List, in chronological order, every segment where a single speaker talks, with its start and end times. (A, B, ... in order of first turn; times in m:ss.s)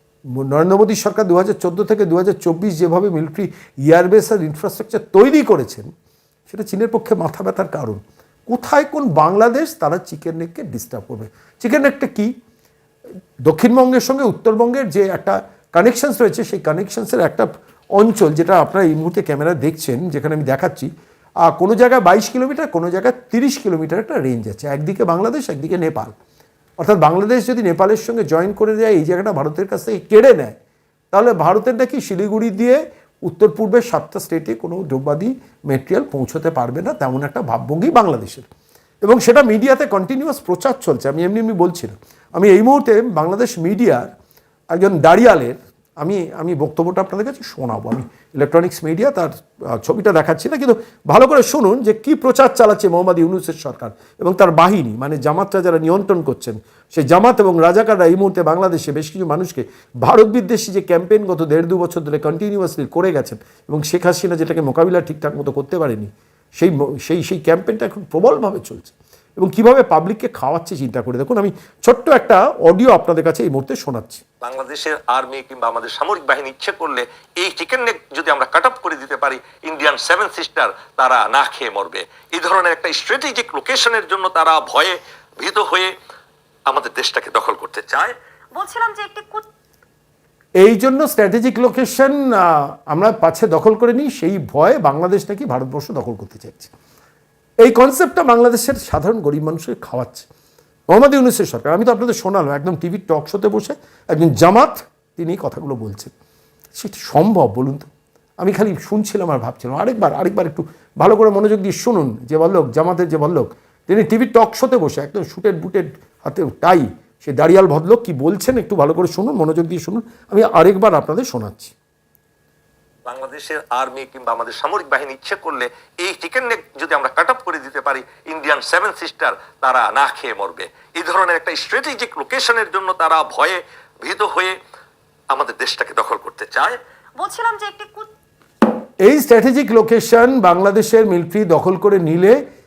0:00.3-0:05.9 A
0:06.5-0:12.3 A
0:13.4-0:20.9 A
0:21.4-0:26.1 A
0:26.8-0:30.6 A
0:31.1-0:38.5 A
0:39.0-0:44.1 A
0:44.7-1:14.2 A
1:14.4-1:25.9 B
1:26.7-1:28.1 B
1:28.5-1:29.5 C
1:30.6-1:36.7 A
1:37.6-1:40.3 A
1:40.9-1:46.1 A
1:46.8-1:47.9 A
1:48.4-2:01.7 A
2:03.1-2:14.5 B
2:15.3-2:16.7 B
2:17.2-2:18.1 C
2:19.0-2:22.4 A